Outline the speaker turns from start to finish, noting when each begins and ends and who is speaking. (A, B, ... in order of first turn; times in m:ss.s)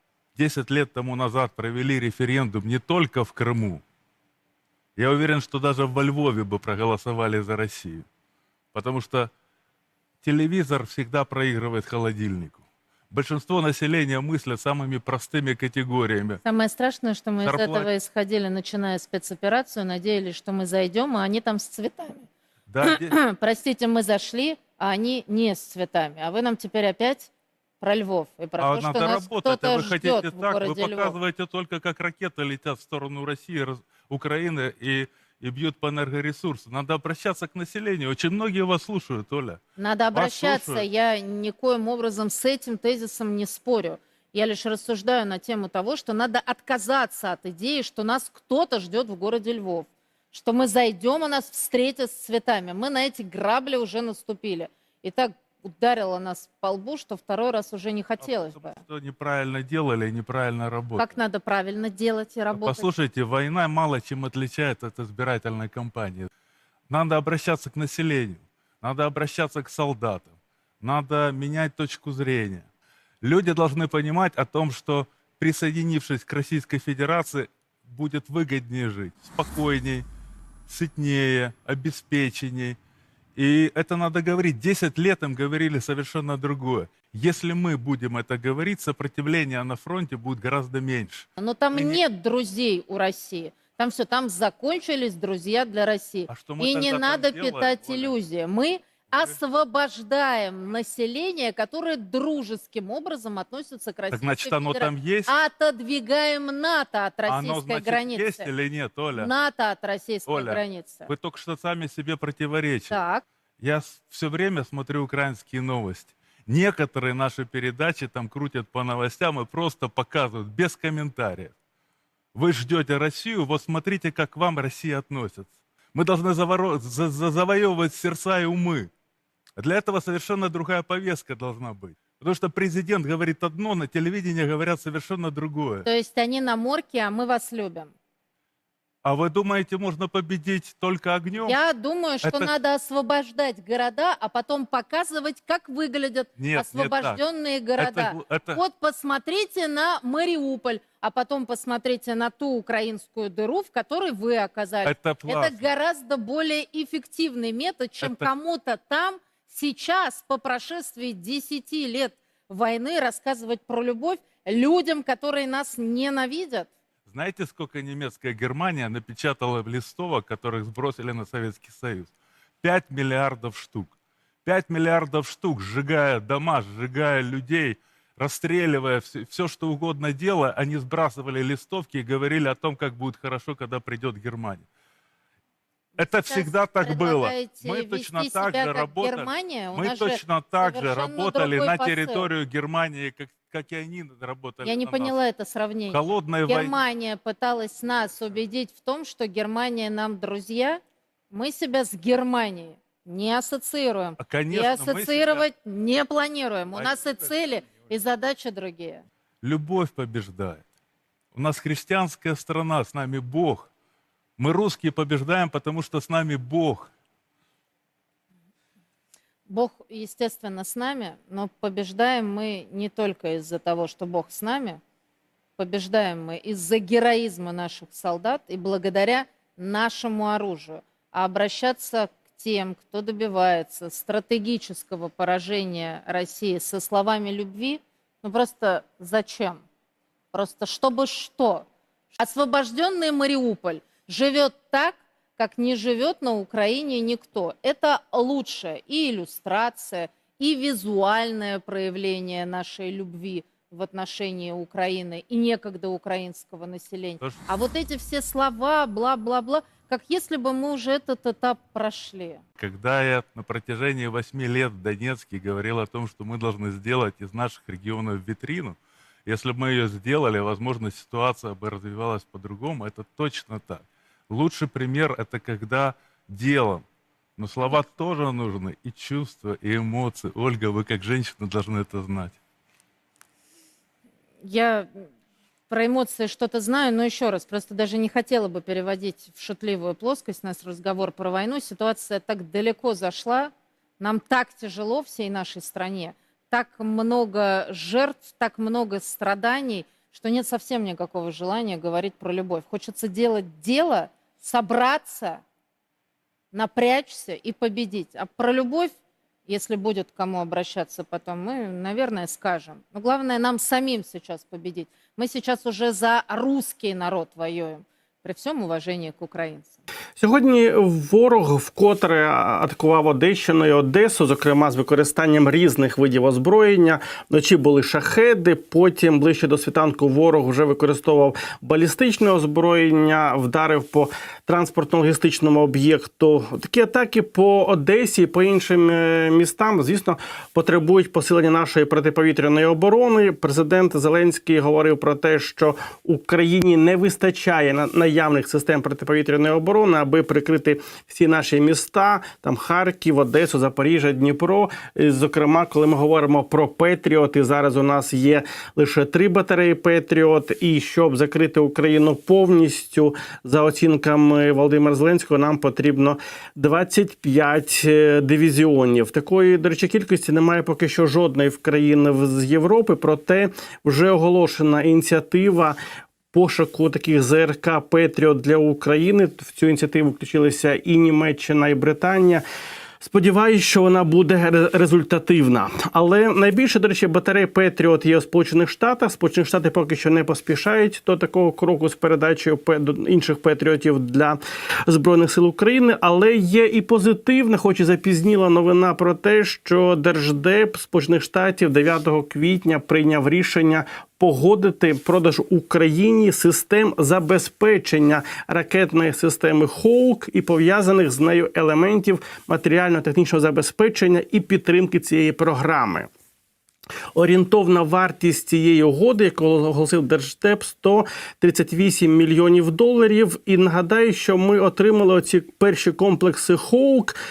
0:00.4-0:03.8 A
0:05.0-0:08.0 A
0:08.7-0:09.3 A
0:10.2-0:16.4 A
0:16.4-0:22.3 B
0:17.4-0:17.9 A
0:22.7-0:23.1 A
0:22.8-0:31.2 B
0:28.6-0:39.6 A
0:39.8-0:58.8 B
0:40.1-0:40.8 A
0:58.2-1:01.2 A
1:01.0-1:02.9 B
1:02.5-1:06.3 A
1:06.9-1:12.6 A
1:13.2-1:20.0 A
1:20.7-1:22.8 A
1:23.4-1:32.0 A
1:31.4-1:48.5 B
1:36.3-1:38.1 A
1:44.1-1:45.3 A
1:47.3-1:49.3 A
1:49.1-1:51.1 B
1:50.3-1:53.0 A
1:52.9-1:53.2 B
1:53.6-2:01.5 A
2:02.3-2:08.9 A
2:09.6-2:15.9 A
2:15.8-2:17.9 B
2:19.0-2:21.6 A
2:21.4-2:46.7 B
2:22.2-2:22.5 A
2:26.4-2:27.2 A
2:27.8-2:28.6 A
2:34.8-2:35.7 A
2:38.0-2:38.2 A
2:47.1-2:53.9 A
2:54.4-3:04.6 A
3:06.0-3:12.3 B
3:06.0-3:15.1 A
3:14.6-3:29.0 B
3:15.9-3:16.8 A
3:24.2-3:25.4 A
3:26.7-3:27.2 A
3:29.4-3:30.6 A
3:31.3-3:33.7 A
3:34.4-3:36.9 A
3:39.5-3:44.8 B
3:45.6-3:59.6 B
4:00.3-4:22.4 B
4:17.2-4:17.5 A
4:22.6-4:36.8 A
4:37.4-4:42.4 A
4:44.4-4:45.0 B
4:45.7-5:05.4 B
5:06.5-5:19.8 B
5:20.2-6:15.8 C
6:16.3-6:22.4 C
6:23.0-6:56.1 C
6:57.1-7:07.2 C